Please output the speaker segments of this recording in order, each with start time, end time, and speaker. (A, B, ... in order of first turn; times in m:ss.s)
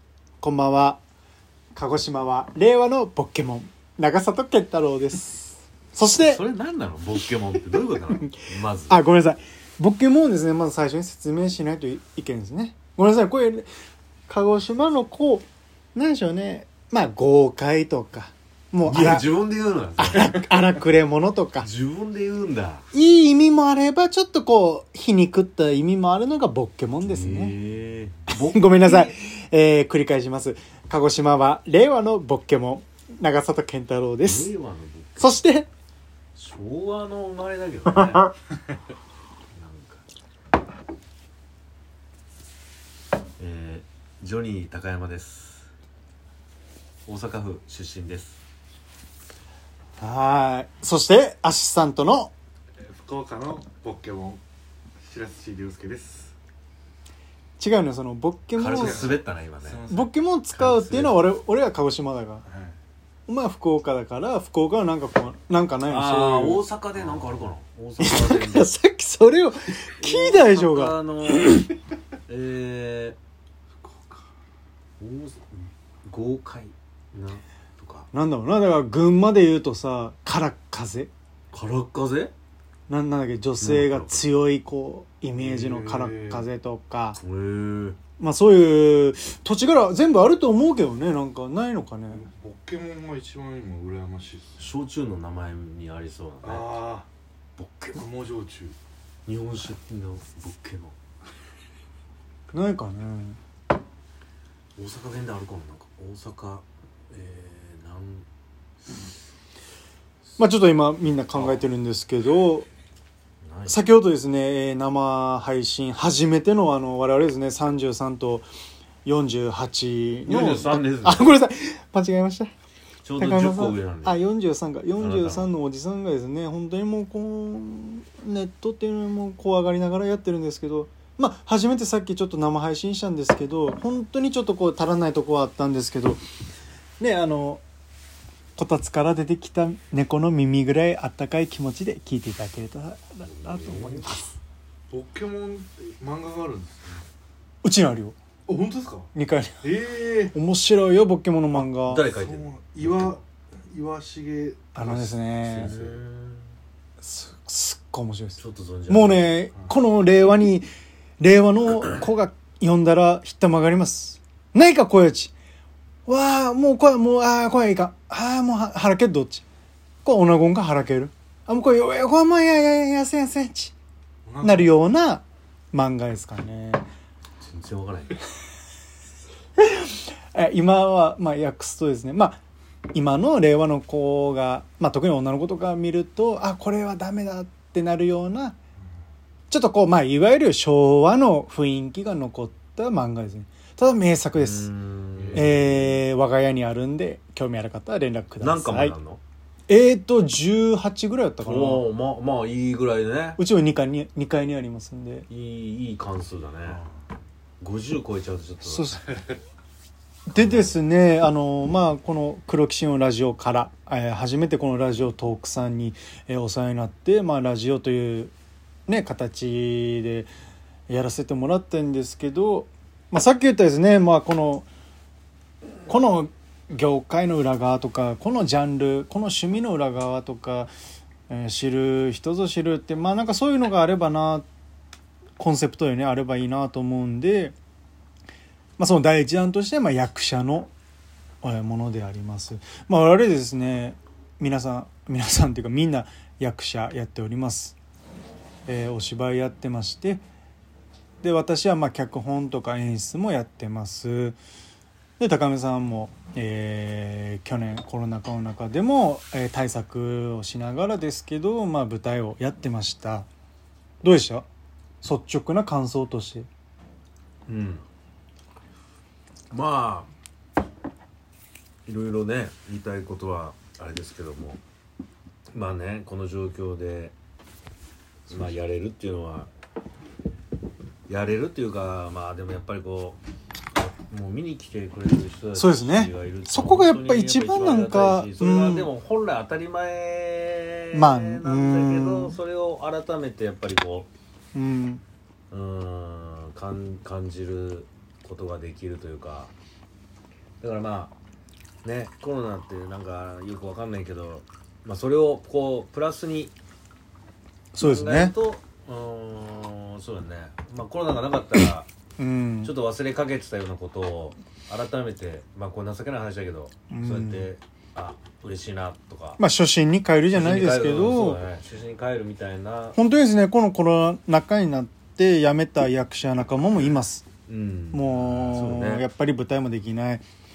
0:00.4-0:01.0 A
0:01.7-0:06.4 A
0:06.2-0:09.0 B
0:07.8-0:13.7 A
0:14.3-0:19.3 A
0:18.8-0:20.5 B
0:20.0-0:21.7 A
0:21.6-0:22.8 B
0:22.9-0:27.6 A
0:27.1-0:29.1 B
0:28.3-0:34.5 A
0:34.2-0:35.4 B
0:35.2-0:35.7 A
0:36.3-0:38.3 B
0:39.5-0:40.0 B
0:43.4-0:45.7 B
0:47.0-0:48.4 B
0:50.0-0:52.3 A
0:52.8-0:54.4 C
0:55.0-0:56.3 C
0:57.6-0:59.1 A
0:58.6-0:59.8 B
0:58.7-1:01.2 C
0:59.9-1:02.4 A
1:00.7-1:01.1 B
1:02.5-1:02.7 C
1:03.3-1:06.6 A
1:05.9-1:08.7 B
1:08.0-1:11.6 A
1:10.0-1:11.7 B
1:12.3-1:13.2 B
1:15.0-1:18.1 B
1:18.1-1:21.1 A
1:21.5-1:22.3 B
1:22.9-1:27.2 A
1:23.6-1:24.3 B
1:25.4-1:26.4 C
1:27.2-1:28.0 B
1:28.2-1:32.2 A
1:32.1-1:34.7 C
1:34.6-1:36.7 B
1:36.4-1:37.1 C
1:37.6-1:38.0 B
1:38.0-1:38.8 C
1:39.2-1:40.9 B
1:42.5-1:43.4 A
1:44.8-1:48.2 B
1:50.4-1:52.6 A
1:51.3-1:51.6 B
1:53.4-1:53.8 B
1:53.7-1:58.5 A
1:59.0-2:02.5 A
2:00.2-2:01.4 B
2:03.0-2:04.2 B
2:03.2-2:16.2 A
2:05.0-2:05.5 B
2:17.0-2:17.6 A
2:18.6-2:24.2 A
2:23.2-2:24.3 B
2:24.9-2:27.0 C
2:27.6-2:28.2 A
2:28.5-2:29.1 C
2:29.1-2:29.7 A
2:29.6-2:30.4 C
2:30.3-2:32.0 A
2:31.7-2:33.2 B
2:32.0-2:36.0 C
2:34.7-2:35.7 A
2:35.4-2:36.4 B
2:37.0-2:40.7 A
2:38.4-2:39.3 B
2:41.2-2:45.3 A
2:46.0-2:49.4 A
2:50.0-2:53.7 A
2:54.3-2:54.7 C
2:54.4-2:56.8 A
2:57.4-2:58.2 B
2:59.6-3:02.4 A
3:02.9-3:08.6 A
3:09.5-3:14.7 A
3:14.3-3:15.9 B
3:15.2-3:15.5 C
3:15.3-3:18.9 A
3:18.4-3:19.2 B
3:19.7-3:21.9 A
3:21.4-3:23.4 B
3:23.4-3:25.2 A
3:25.3-3:26.8 B
3:27.6-3:29.0 B
3:28.6-3:29.0 A
3:30.3-3:38.3 A
3:30.3-3:30.8 B
3:38.9-3:40.3 A
3:40.9-3:44.7 A
3:45.9-3:50.7 A
3:51.3-3:54.4 A
3:55.4-3:57.5 A
3:58.8-4:00.7 A
4:01.4-4:07.8 A
4:08.7-4:10.2 A
4:11.2-4:14.4 A
4:15.2-4:23.3 A
4:24.0-4:24.4 A
4:25.0-4:26.5 A
4:27.5-4:27.8 B
4:29.5-4:30.1 B
4:31.8-4:34.6 B
4:35.5-4:37.1 B
4:38.3-4:39.5 B
4:41.1-4:43.2 B
4:43.7-4:54.1 B
4:45.5-4:48.9 A
4:50.9-4:52.4 A
4:54.5-4:55.0 A
4:55.5-4:59.5 B
5:00.6-5:01.1 B
5:01.8-5:06.5 B
5:07.7-5:08.3 A
5:07.8-5:11.9 B
5:12.2-5:12.7 A
5:12.6-5:19.4 B
5:16.9-5:17.5 A
5:19.4-5:21.4 A
5:20.3-5:23.0 B
5:22.9-5:27.2 A
5:27.5-5:29.0 B
5:27.9-5:30.2 A